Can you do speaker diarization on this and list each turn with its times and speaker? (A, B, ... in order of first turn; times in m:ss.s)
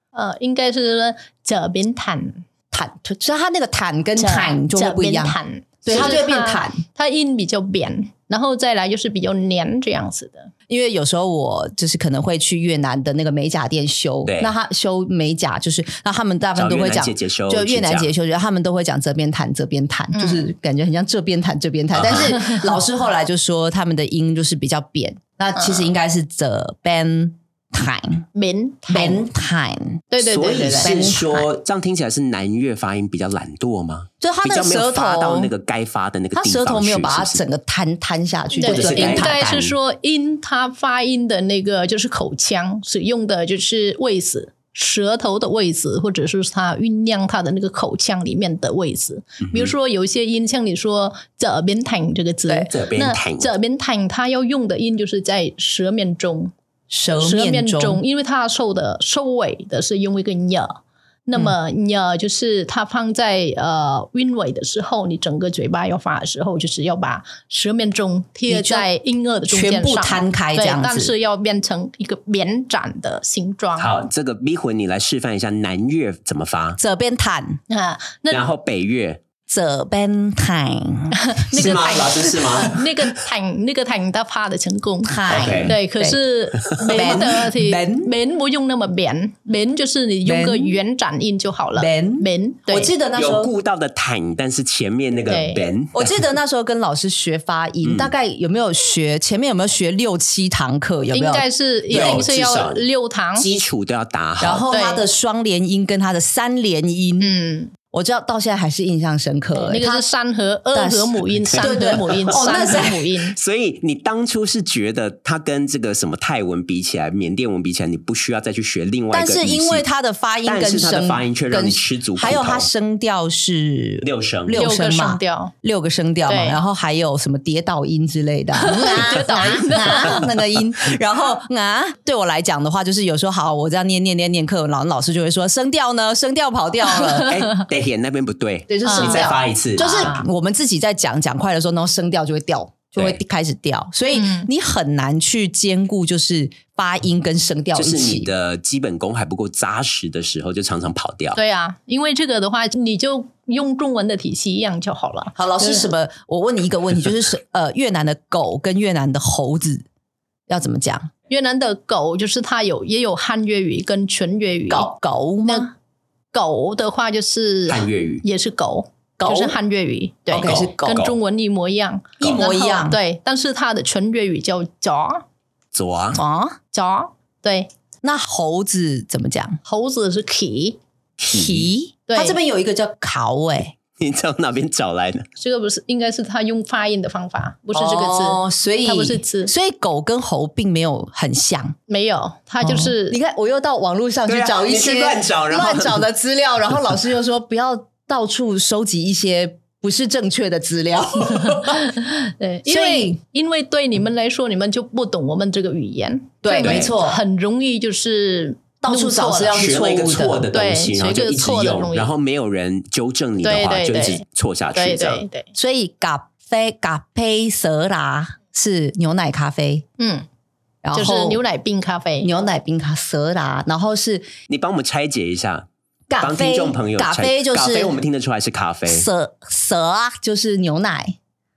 0:00.1-0:02.4 A
0:02.7-0:06.8 B
0:04.2-0:10.5 A
0:10.7-0:28.2 B
0:14.2-0:14.5 C
0:16.6-0:18.1 C
0:20.1-0:20.5 A
0:21.9-0:22.4 C
0:25.6-0:25.9 A
0:28.3-0:29.2 A
0:28.9-0:30.0 B
0:30.1-0:31.1 A
0:30.2-0:37.4 C
0:30.8-0:31.5 B
0:34.2-0:35.5 B
0:36.3-0:39.5 B
0:38.5-0:56.5 A
0:38.6-0:39.7 C
0:52.7-0:53.5 C
0:56.9-0:58.0 B
0:57.2-1:13.9 A
1:08.5-1:08.9 B
1:09.5-1:11.1 B
1:13.8-1:16.8 C
1:16.8-1:17.6 B
1:17.7-1:18.4 A
1:18.3-1:19.2 C
1:19.5-1:22.5 B
1:21.1-1:32.9 A
1:21.5-1:22.8 C
1:25.0-1:26.2 B
1:25.3-1:25.8 C
1:26.9-1:28.1 B
1:26.9-1:27.2 C
1:30.2-1:30.8 B
1:31.8-1:33.5 B
1:33.1-1:36.2 C
1:35.3-1:35.6 A
1:35.9-1:42.2 B
1:37.8-1:38.1 C
1:41.1-1:43.5 A
1:41.9-1:42.8 C
1:43.4-1:44.6 C
1:44.4-1:47.3 B
1:44.7-1:45.0 A
1:47.2-1:47.7 A
1:47.9-1:50.0 B
1:49.5-1:53.4 A
1:50.7-1:53.0 B
1:51.5-1:59.8 C
1:59.1-2:17.3 B
2:00.4-2:02.7 C
2:04.0-2:04.7 C
2:04.6-2:05.5 A
2:06.3-2:06.6 A
2:08.6-2:10.3 A
2:16.9-2:17.6 A
2:17.2-2:20.1 C
2:18.7-2:28.3 B
2:18.8-2:20.3 A
2:24.1-2:24.5 A
2:27.7-2:31.4 C
2:31.3-2:35.9 A
2:35.4-2:39.8 B
2:40.5-2:41.1 B
2:41.3-2:44.9 A
2:44.7-2:45.7 B
2:45.4-2:45.7 A
2:46.3-2:55.2 A
2:47.7-2:48.2 C
2:49.2-2:49.6 B
2:50.3-2:51.0 B
2:50.4-2:51.2 C
2:52.2-2:53.0 B
2:55.7-2:56.2 C
2:56.1-2:56.6 B
2:56.7-2:57.7 A
2:58.0-2:59.6 B
2:59.6-3:00.8 A
3:01.2-3:01.7 C
3:01.3-3:03.7 B
3:02.1-3:02.4 A
3:04.0-3:05.3 C
3:05.4-3:09.5 A
3:07.7-3:11.8 B
3:11.9-3:13.2 A
3:12.6-3:21.8 B
3:14.3-3:16.0 C
3:21.4-3:29.6 A
3:22.6-3:23.2 B
3:26.4-3:27.2 B
3:26.6-3:26.9 C
3:28.8-3:30.5 B
3:29.5-3:35.2 C
3:30.5-3:32.1 A
3:33.4-3:34.2 A
3:34.7-3:35.5 A
3:35.5-3:39.8 B
3:40.0-3:40.2 A
3:40.8-3:41.4 B
3:40.9-3:42.3 A
3:42.2-3:44.3 B
3:44.5-3:45.7 C
3:46.1-3:48.0 B
3:46.2-3:49.1 C
3:48.9-3:51.2 B